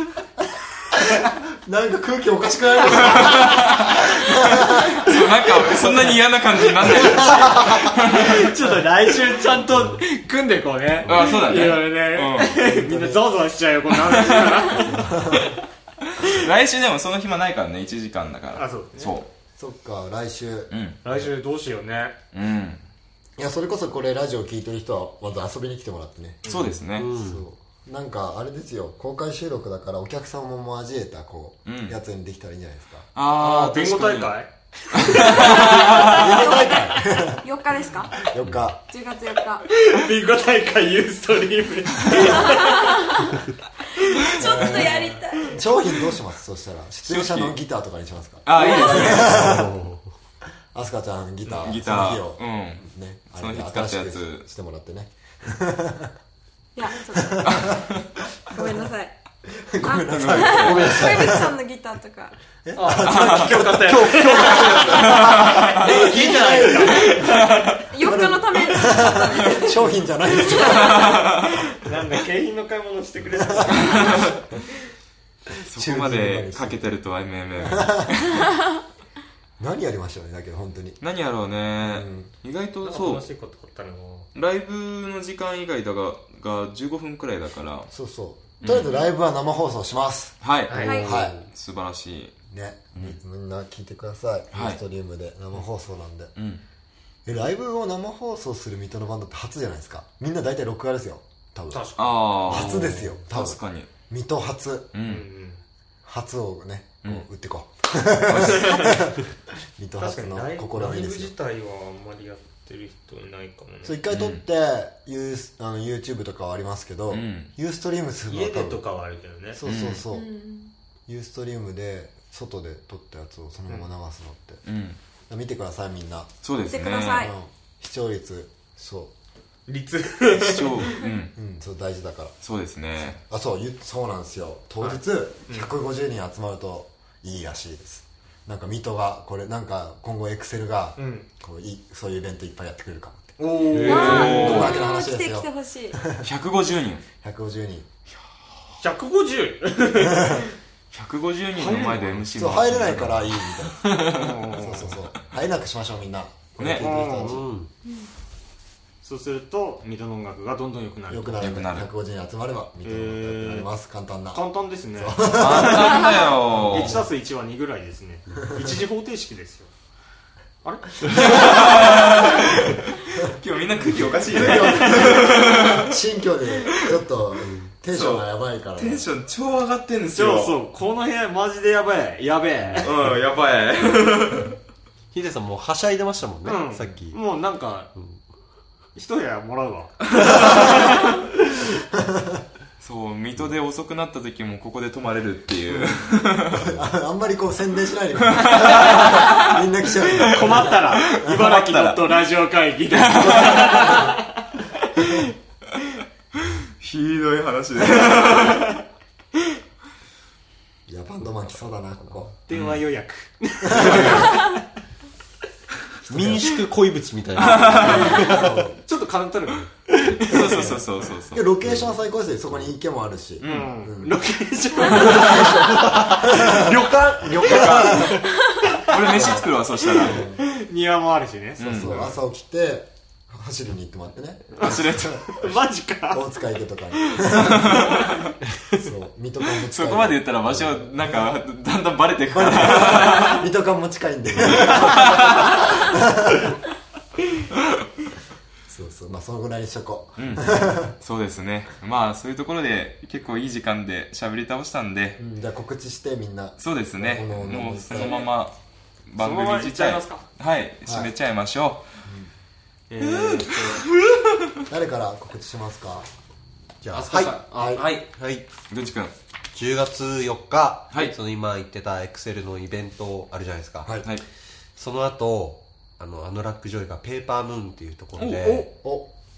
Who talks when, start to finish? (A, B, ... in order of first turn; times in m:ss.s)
0:01.1-0:05.0 A
0:03.0-0:04.0 B
0:04.7-0:08.5 B
0:07.0-0:07.6 A
0:07.2-0:15.1 C
0:11.0-0:12.6 B
0:12.6-0:13.2 A
0:14.0-0:14.8 B
0:14.8-0:15.6 A
0:16.2-0:19.3 B
0:18.6-0:19.2 C
0:19.6-0:20.7 A
0:20.7-0:21.0 B
0:21.0-0:22.2 C
0:22.3-0:22.8 B
0:23.4-0:26.4 A
0:26.4-0:26.7 C
0:26.4-0:27.1 B
0:27.0-0:27.4 D
0:27.2-0:33.1 A
0:31.7-0:32.0 B
0:33.2-0:34.4 B
0:33.4-0:35.6 C
0:34.9-0:36.3 B
0:35.3-0:37.4 A
0:35.5-0:38.3 E
0:38.2-0:38.8 A
0:38.9-0:39.7 E
0:39.7-0:43.2 C
0:42.3-0:43.4 E
0:44.0-0:45.6 E
0:44.4-0:49.8 A
0:44.5-0:44.9 B
0:47.0-0:47.6 B
0:48.4-0:49.6 B
0:48.6-0:49.2 E
0:49.2-0:50.1 D
0:50.7-0:56.1 A
0:51.5-0:54.5 B
0:56.8-0:57.7 E
0:57.2-0:57.8 A
0:57.4-0:58.0 B
0:58.5-0:59.1 E
0:59.6-1:01.5 A
0:59.8-1:02.4 E
1:00.1-1:01.0 B
1:00.6-1:01.5 D
1:02.6-1:07.4 A
1:02.8-1:07.4 C
1:03.1-1:03.6 B
1:04.6-1:05.9 B
1:07.1-1:07.8 B
1:07.9-1:11.1 E
1:08.0-1:11.2 A
1:10.7-1:11.4 B
1:11.8-1:14.4 C
1:13.4-1:14.3 A
1:13.8-1:14.3 B
1:15.6-1:18.4 B
1:15.7-1:16.9 A
1:17.6-1:18.2 A
1:19.6-1:21.0 A
1:21.0-1:23.3 B
1:21.8-1:22.3 A
1:22.8-1:24.3 C
1:24.4-1:27.9 B
1:27.9-1:30.4 A
1:28.6-1:28.9 B
1:28.7-1:29.0 E
1:30.4-1:32.4 B
1:30.7-1:31.4 C
1:30.8-1:31.3 D
1:30.8-1:31.1 E
1:31.0-1:31.4 A
1:32.5-1:36.3 A
1:34.5-1:34.8 B
1:36.4-1:36.6 B
1:37.2-1:41.9 A
1:41.7-1:42.2 C
1:42.0-1:43.9 B
1:42.4-1:44.9 A
1:44.9-1:45.3 B
1:45.0-1:45.6 C
1:46.0-1:49.2 A
1:48.3-1:48.7 B
1:48.4-1:49.0 C
1:49.8-1:51.3 A
1:50.0-1:54.0 C
1:53.8-1:58.8 A
1:54.1-1:54.4 B
1:57.1-1:57.5 B
1:58.3-1:59.6 C
1:59.6-2:00.3 A
1:59.6-2:00.0 B
2:00.1-2:00.7 E
2:01.1-2:04.6 A
2:04.7-2:05.0 B
2:05.3-2:06.3 A
2:06.4-2:07.3 B
2:06.7-2:07.3 E
2:07.2-2:09.1 A
2:09.7-2:11.0 C
2:10.3-2:11.3 B
2:11.4-2:12.4 A
2:12.4-2:13.2 B
2:13.0-2:23.4 A
2:14.8-2:15.7 C
2:21.0-2:21.3 C
2:23.4-2:24.6 C
2:23.7-2:24.5 D
2:23.8-2:26.0 E
2:23.9-2:24.9 B
2:23.9-2:26.3 A
2:26.2-2:27.0 B
2:27.2-2:27.9 A
2:28.8-2:30.5 C
2:30.0-2:30.5 A
2:30.9-2:34.0 B
2:31.6-2:32.2 C
2:32.3-2:33.9 A
2:33.9-2:35.0 C
2:34.5-2:37.5 A
2:36.6-2:36.9 B
2:36.8-2:37.4 C
2:37.2-2:37.7 D
2:39.0-2:41.5 C
2:41.1-2:44.4 A
2:41.4-2:41.9 B
2:42.8-2:43.7 C
2:44.3-2:45.7 C
2:45.0-2:47.0 A
2:45.3-2:47.0 B
2:46.7-2:49.7 C
2:50.6-2:51.6 C
2:51.1-2:55.9 B
2:54.3-2:59.1 A
2:57.4-2:57.7 D
2:57.9-3:00.6 B
3:00.1-3:03.0 C
3:02.8-3:04.6 B
3:05.1-3:07.2 D
3:06.4-3:07.9 C
3:09.0-3:11.2 C
3:12.0-3:12.4 A
3:12.8-3:16.8 B
3:15.7-3:16.0 C
3:16.5-3:21.3 A
3:18.3-3:19.4 B
3:20.0-3:22.0 B
3:20.2-3:24.3 C
3:22.9-3:24.1 B
3:26.8-3:28.8 B
3:30.9-3:32.3 A
3:32.5-3:34.6 C
3:32.5-3:32.8 B
3:33.7-3:34.3 A
3:36.1-3:36.5 A
3:36.1-3:38.6 D
3:37.4-3:38.3 B
3:37.6-3:39.9 C
3:37.7-3:38.8 A
3:40.0-3:41.5 B
3:40.3-3:44.2 A
3:41.6-3:41.9 D
3:43.4-3:43.8 B
3:43.4-3:48.2 C
3:44.8-3:46.8 A
3:44.9-3:48.2 D
3:47.4-3:48.2 A
3:48.4-3:48.7 E
3:48.8-3:50.2 B
3:49.0-3:50.4 A
3:50.1-3:52.2 C
3:51.6-3:52.1 B
3:51.6-3:55.3 A
3:54.6-3:55.3 B
3:54.6-3:56.2 C
3:56.1-3:58.1 A
3:57.4-3:58.3 B
3:58.7-4:00.9 A
3:59.6-4:03.5 B
4:02.3-4:06.6 A
4:04.4-4:05.7 B
4:08.7-4:11.0 A
4:10.2-4:15.2 B
4:15.2-4:18.2 A
4:16.6-4:18.6 B
4:17.9-4:18.3 C
4:19.1-4:21.9 B
4:19.2-4:20.2 C
4:22.0-4:22.3 A
4:22.9-4:23.9 C
4:23.0-4:24.6 B
4:24.7-4:26.1 A
4:26.8-4:27.4 D
4:26.9-4:28.0 C
4:27.5-4:27.8 A
4:28.0-4:28.5 D
4:28.7-4:29.1 B
4:29.5-4:33.9 D
4:34.8-4:38.7 D
4:38.2-4:38.7 B